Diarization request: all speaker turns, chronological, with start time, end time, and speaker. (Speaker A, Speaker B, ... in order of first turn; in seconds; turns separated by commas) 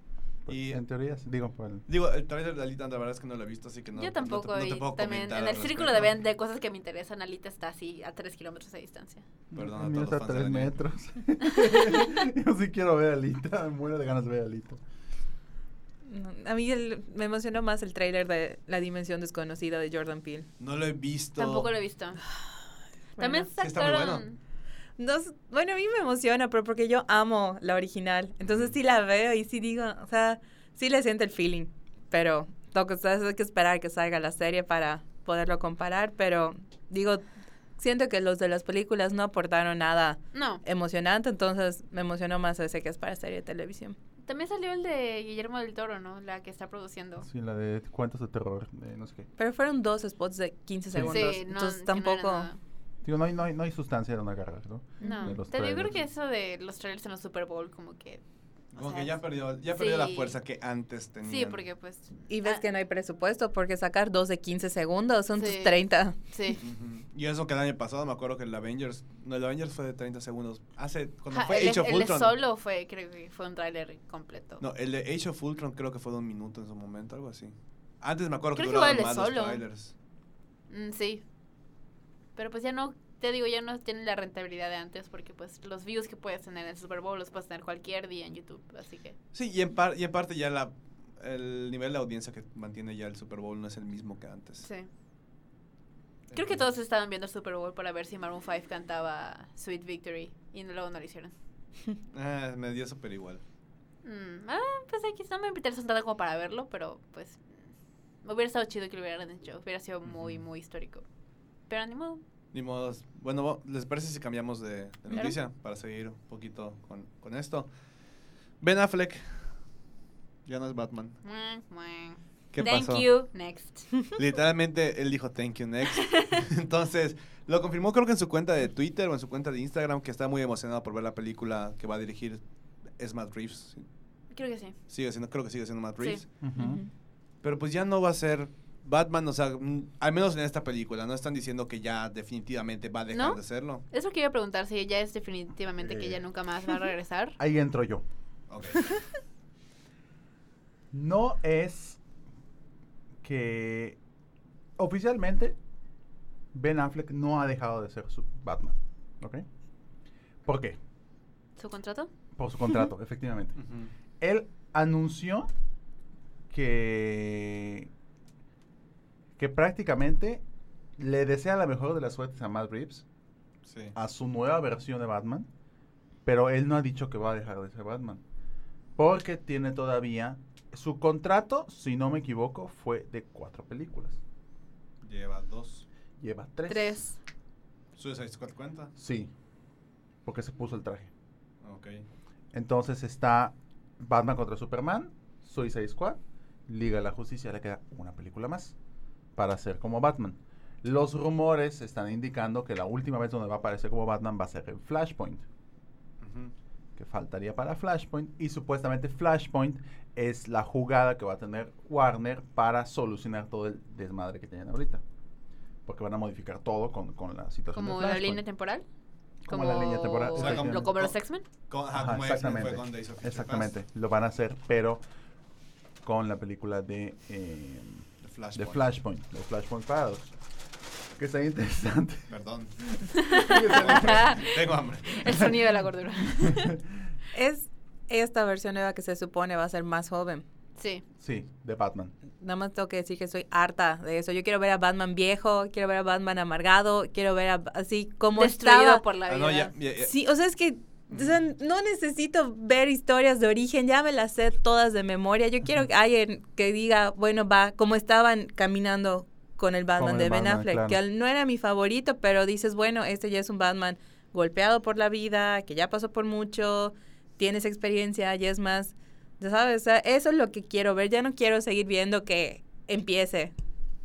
Speaker A: 0.5-1.9, Speaker B: 0.5-0.8, Speaker B: 1.9-6.1, Speaker C: 4.0-9.2, Speaker A: 9.5-14.8, Speaker B: 9.5-10.7, Speaker D: 16.1-20.5, Speaker B: 20.6-21.7, Speaker C: 21.4-22.2, Speaker D: 23.2-23.5, Speaker C: 23.2-24.4, Speaker B: 23.6-24.2, Speaker D: 25.0-37.2, Speaker B: 28.4-28.7, Speaker D: 37.8-44.0, Speaker C: 40.3-40.6, Speaker C: 44.3-47.3, Speaker A: 47.2-49.3, Speaker D: 49.4-52.5, Speaker A: 50.9-51.3, Speaker C: 51.0-52.6, Speaker A: 53.0-56.0, Speaker D: 55.0-55.4, Speaker C: 55.0-58.2, Speaker B: 58.7-61.6, Speaker C: 58.7-60.4, Speaker C: 61.2-62.6, Speaker D: 62.3-66.2, Speaker C: 65.4-66.6, Speaker B: 66.6-72.4, Speaker C: 71.3-74.6, Speaker B: 74.6-79.9, Speaker C: 78.6-79.6, Speaker C: 80.7-81.2, Speaker C: 82.4-89.2, Speaker B: 89.3-94.7, Speaker C: 94.6-94.9, Speaker B: 96.3-96.6, Speaker C: 96.3-101.3, Speaker B: 102.1-103.4, Speaker C: 104.0-107.5, Speaker C: 108.2-111.0, Speaker B: 110.1-110.4, Speaker C: 111.7-112.2, Speaker B: 112.5-117.7, Speaker C: 115.1-115.4, Speaker B: 118.6-119.4, Speaker B: 120.5-121.2, Speaker C: 121.2-123.9, Speaker B: 122.5-123.1, Speaker B: 124.2-132.4, Speaker C: 126.1-126.4, Speaker B: 133.0-133.8, Speaker C: 134.3-134.8, Speaker B: 134.9-136.3, Speaker A: 136.4-136.8, Speaker D: 136.6-136.9, Speaker B: 137.4-143.8, Speaker C: 143.1-147.4, Speaker A: 145.8-146.2, Speaker A: 147.4-148.0, Speaker B: 148.5-149.0, Speaker A: 150.9-152.0, Speaker A: 153.2-154.0, Speaker A: 154.8-155.6, Speaker A: 156.5-159.4, Speaker A: 160.4-160.8, Speaker C: 161.6-162.1, Speaker A: 162.4-163.6, Speaker B: 163.6-163.9, Speaker A: 164.2-165.5, Speaker A: 166.5-167.9, Speaker A: 169.4-170.4, Speaker A: 171.0-173.1, Speaker B: 173.7-173.9, Speaker A: 173.9-175.5, Speaker A: 176.2-178.2, Speaker A: 179.0-184.2, Speaker B: 185.0-185.9, Speaker A: 186.2-187.0, Speaker C: 186.7-187.2, Speaker B: 188.0-188.9, Speaker A: 189.0-189.3, Speaker A: 190.3-191.1, Speaker B: 191.6-192.0, Speaker A: 192.5-198.8, Speaker A: 199.4-205.4, Speaker B: 206.2-206.5, Speaker A: 207.0-215.0, Speaker A: 215.9-218.4, Speaker C: 217.7-218.8, Speaker A: 219.5-220.9, Speaker C: 219.5-221.4, Speaker B: 220.3-221.1, Speaker B: 221.7-223.7, Speaker A: 221.9-225.0, Speaker A: 226.0-228.0, Speaker B: 228.2-228.8, Speaker A: 228.6-230.3, Speaker A: 231.2-232.3, Speaker B: 232.3-232.7, Speaker C: 233.2-236.8, Speaker A: 233.3-234.4, Speaker B: 233.7-235.5, Speaker D: 237.3-240.4, Speaker C: 240.8-241.0, Speaker A: 241.2-242.1, Speaker D: 242.4-249.0, Speaker C: 248.3-249.7, Speaker B: 249.3-250.1, Speaker D: 250.0-273.5, Speaker A: 259.9-261.0